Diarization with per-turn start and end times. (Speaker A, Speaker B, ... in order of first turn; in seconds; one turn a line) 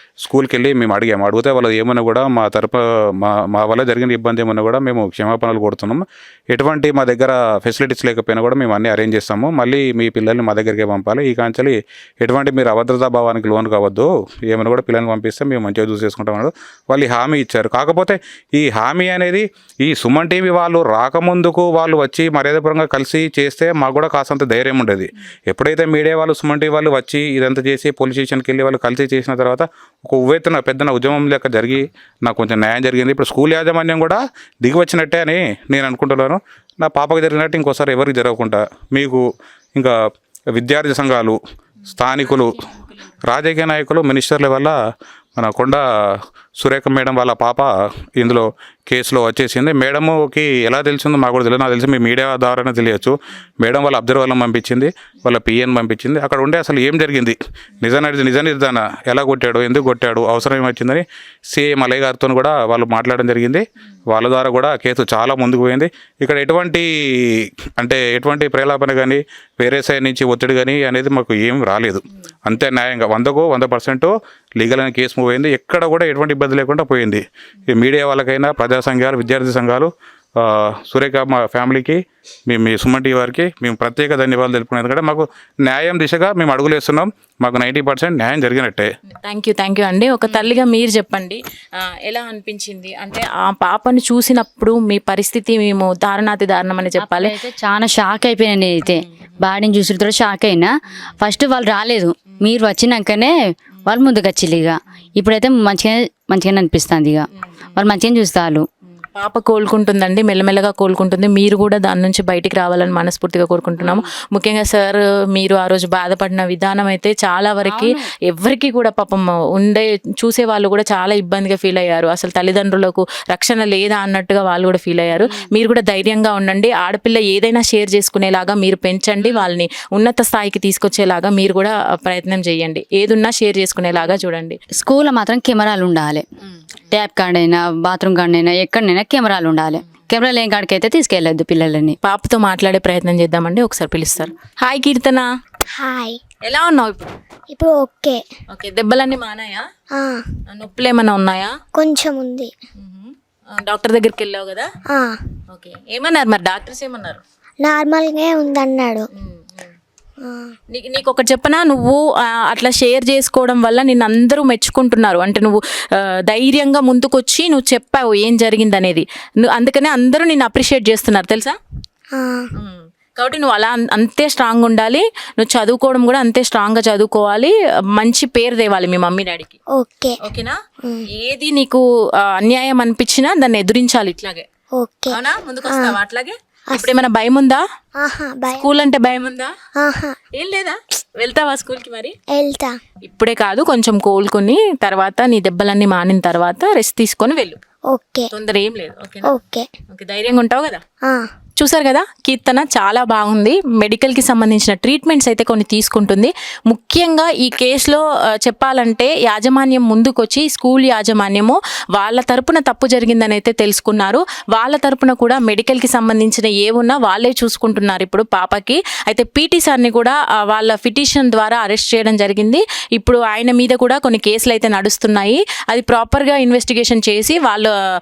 Speaker A: 0.2-39.2
Speaker A: 40.5-42.7
Speaker A: 43.3-44.8
Speaker A: 45.4-45.8
Speaker A: 46.6-88.9
Speaker B: 89.2-97.3
Speaker C: 97.0-103.3
Speaker C: 103.9-108.7
Speaker B: 109.2-134.6
Speaker C: 113.8-114.1
Speaker C: 117.6-118.0
Speaker C: 134.8-136.2
Speaker C: 136.9-142.0
Speaker B: 142.0-145.3
Speaker D: 145.8-146.2
Speaker B: 146.4-147.1
Speaker D: 147.5-148.2
Speaker B: 148.5-149.6
Speaker D: 149.9-150.2
Speaker B: 150.5-151.5
Speaker D: 151.8-152.5
Speaker B: 152.8-154.7
Speaker D: 154.9-155.2
Speaker B: 155.5-157.2
Speaker D: 157.6-159.1
Speaker B: 159.2-159.7
Speaker D: 160.2-160.5
Speaker B: 160.7-171.6
Speaker D: 172.2-172.5
Speaker B: 172.6-179.6
Speaker D: 179.8-180.2
Speaker B: 180.2-180.6
Speaker B: 181.1-184.5
Speaker D: 184.8-185.1
Speaker B: 185.1-187.6
Speaker D: 185.7-185.9
Speaker D: 188.0-188.6
Speaker B: 188.6-189.5
Speaker D: 189.8-190.2
Speaker B: 190.4-192.2
Speaker D: 192.3-192.8
Speaker B: 193.1-197.6
Speaker D: 197.9-198.3
Speaker B: 198.3-199.4
Speaker D: 199.3-199.7
Speaker B: 199.9-200.8
Speaker B: 201.6-227.7